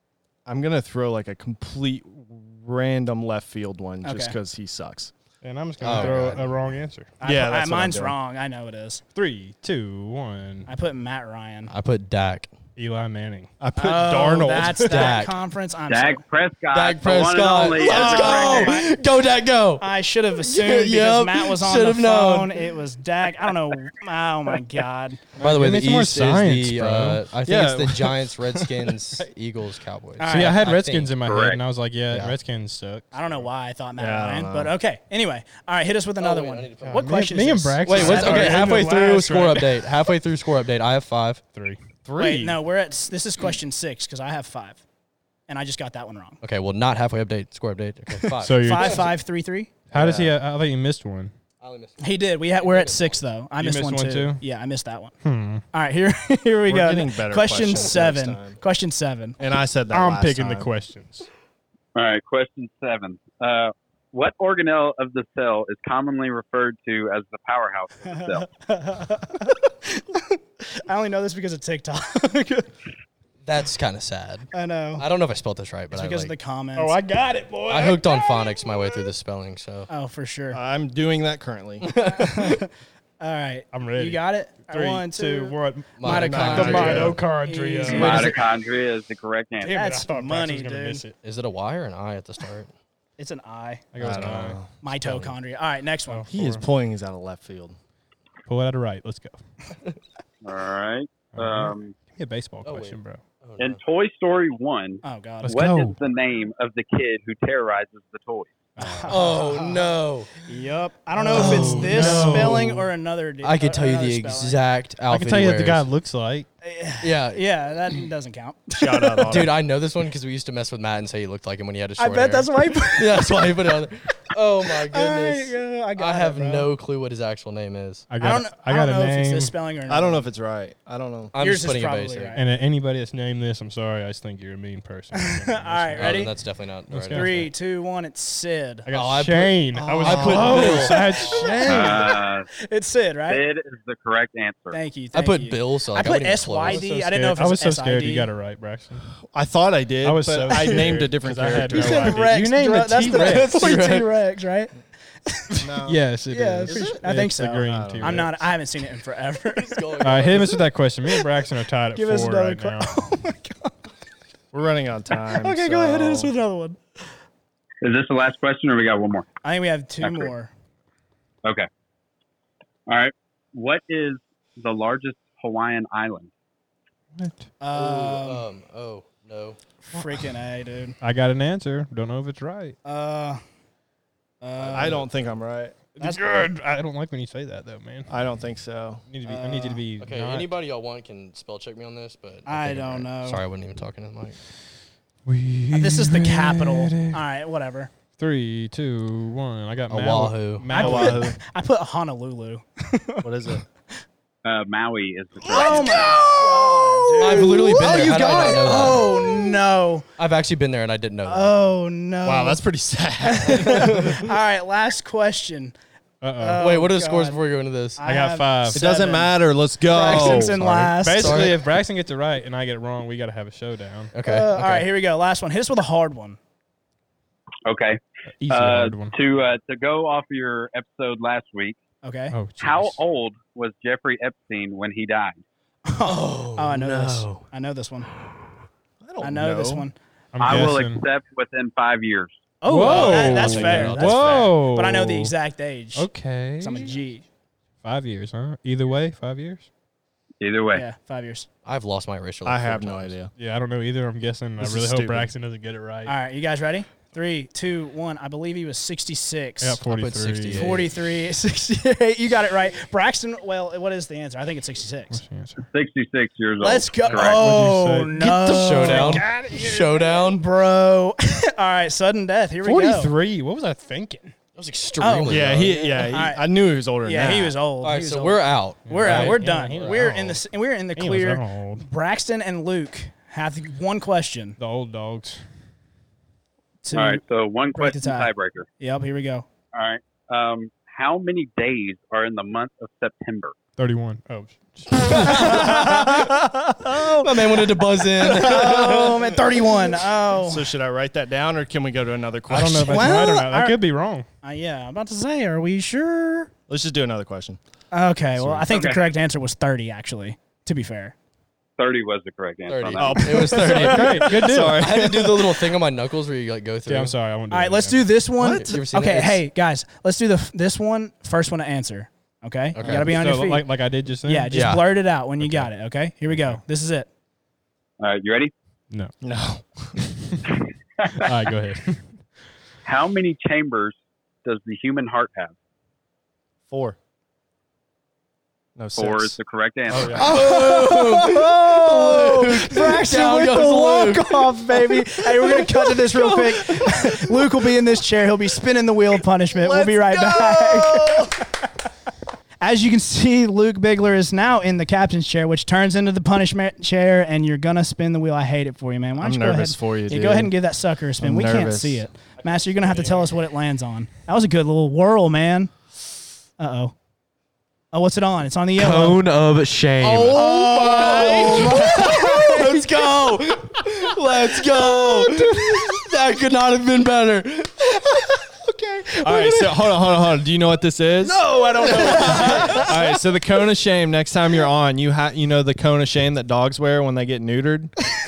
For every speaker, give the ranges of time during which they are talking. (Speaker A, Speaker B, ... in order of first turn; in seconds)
Speaker A: 0.5-5.1, 7.2-8.1, 13.6-15.1, 27.4-28.9, 34.0-34.7, 42.0-42.6, 49.9-50.4, 56.7-58.6, 59.4-60.7, 80.5-81.9, 86.1-87.2, 94.0-94.7, 96.3-97.8, 118.7-119.5, 129.9-131.3, 139.7-142.1, 149.2-152.2, 155.6-156.0, 156.7-157.0, 157.6-158.3, 164.5-166.3, 184.7-185.7, 188.1-189.0, 200.7-201.4, 203.2-203.6, 205.4-207.7, 212.2-214.1, 218.7-220.9, 239.0-239.9, 252.4-253.3, 254.6-255.3, 275.3-277.6, 298.5-299.4, 300.3-303.2, 306.7-307.6, 308.4-308.6, 312.9-315.7, 318.4-318.7, 329.2-330.1, 336.7-337.0, 338.8-339.4, 339.9-340.6, 345.4-347.7, 349.5-351.4, 359.2-360.5, 361.2-362.1, 370.0-372.5, 379.2-387.9
Speaker B: 4.0-4.3, 7.2-9.0, 10.7-11.7, 13.8-16.2, 17.8-18.9, 19.8-25.2, 30.2-31.1, 33.1-39.5, 42.2-44.8, 45.5-46.4, 48.6-49.7, 52.0-55.1, 55.7-59.4, 68.1-72.7, 74.5-75.0, 75.9-77.0, 79.9-80.6, 82.0-88.3, 89.6-91.0, 93.2-93.9, 94.8-96.3, 105.0-105.5, 108.8-109.8, 110.4-114.6, 116.6-119.4, 122.0-123.5, 124.9-126.7, 128.2-130.3, 131.4-132.5, 135.1-136.3, 137.1-138.9, 140.5-143.4, 144.7-148.3, 150.5-150.8, 151.7-154.7, 155.2-155.7, 156.3-160.4, 161.9-163.8, 165.2-166.8, 169.4-170.5, 177.6-178.4, 179.8-181.0, 182.8-183.4, 184.4-185.0, 186.0-186.4, 189.2-189.8, 192.4-193.4, 195.7-197.9, 200.7-203.6, 205.4-210.1, 211.2-212.6, 213.2-215.7, 216.4-217.4, 218.0-221.5, 224.2-226.4, 232.0-232.3, 235.8-238.1, 239.2-239.9, 242.6-247.2, 250.7-251.5, 256.1-259.8, 260.5-265.2, 266.6-273.1, 275.0-276.4, 277.0-284.6, 286.8-287.2, 287.7-289.5, 295.1-300.7, 302.8-303.8, 304.4-306.5, 307.9-311.1, 313.3-314.6, 317.5-323.7, 324.2-327.1, 340.1-351.7, 352.6-365.7, 366.6-366.9, 367.9-369.2, 370.3-372.8, 375.0-375.2, 381.4-382.9
Speaker C: 5.4-7.1, 9.1-10.7, 12.8-13.5, 25.4-27.2, 30.3-33.4, 36.9-39.5, 41.5-41.8, 48.4-49.1, 49.9-51.3, 53.6-54.4, 55.2-55.6, 59.9-61.3, 76.8-78.4, 83.7-88.4, 89.7-91.2, 93.9-94.6, 96.1-96.6, 98.5-99.4, 101.3-103.2, 105.4-106.0, 108.8-109.2, 111.3-112.7, 115.1-116.5, 128.1-129.5, 132.3-136.3, 136.9-137.5, 138.8-141.7, 146.7-149.1, 150.0-153.5, 155.8-158.3, 160.0-162.9, 177.2-177.5, 181.0-182.8, 185.9-188.1, 189.1-190.5, 195.2-197.2, 198.2-201.3, 216.2-216.6, 218.0-218.8, 221.0-224.1, 228.4-229.1, 232.3-233.0, 240.3-241.0, 242.7-245.3, 245.9-246.9, 247.8-249.7, 253.4-256.1, 259.6-260.8, 265.1-265.7, 267.1-268.2, 268.7-269.3, 272.6-274.3, 278.9-280.4, 280.9-281.9, 284.6-285.4, 293.8-295.7, 302.5-304.2, 313.6-314.8, 316.9-318.0, 322.9-324.5, 325.4-325.7, 326.3-326.6, 331.1-332.1
Speaker D: 5.8-6.5, 11.7-12.5, 14.8-15.3, 16.7-22.6, 25.4-31.1, 36.2-37.1, 37.8-41.4, 46.4-49.0, 51.6-53.2, 73.4-76.3, 77.7-79.9, 81.8-82.6, 86.0-87.1, 91.2-92.7, 95.0-95.3, 102.6-103.8, 109.1-110.3, 111.3-112.8, 113.4-115.8, 117.0-117.4, 119.3-128.1, 131.3-132.4, 136.0-137.4, 138.9-141.0, 145.1-146.8, 153.1-154.1, 159.5-160.6, 177.7-179.6, 184.6-185.0, 190.0-194.4, 199.9-200.7, 207.2-209.2, 210.2-211.5, 213.8-214.1, 216.6-218.0, 221.2-221.6, 224.1-224.8, 236.0-237.4, 242.8-244.5, 251.6-253.1, 259.9-260.9, 268.2-270.4, 274.6-275.8, 277.8-279.9, 295.1-296.2, 296.9-299.3, 312.7-317.1, 318.5-319.4, 322.7-323.2, 324.5-324.9, 340.0-344.5, 368.8-378.3, 379.1-379.7, 381.2-382.9
Speaker E: 15.9-18.7, 31.2-31.6, 61.9-68.5, 87.9-89.8, 100.4-101.9, 103.6-108.5, 141.7-142.5, 143.3-144.8, 167.8-169.3, 170.0-170.3, 172.9-176.3, 204.4-206.1, 227.7-231.8, 232.6-235.4, 240.4-242.3, 250.4-250.8, 265.7-267.5, 286.9-288.6, 289.7-293.6, 308.7-309.0, 311.8-313.2, 328.0-328.5, 332.8-335.5, 338.9-340.3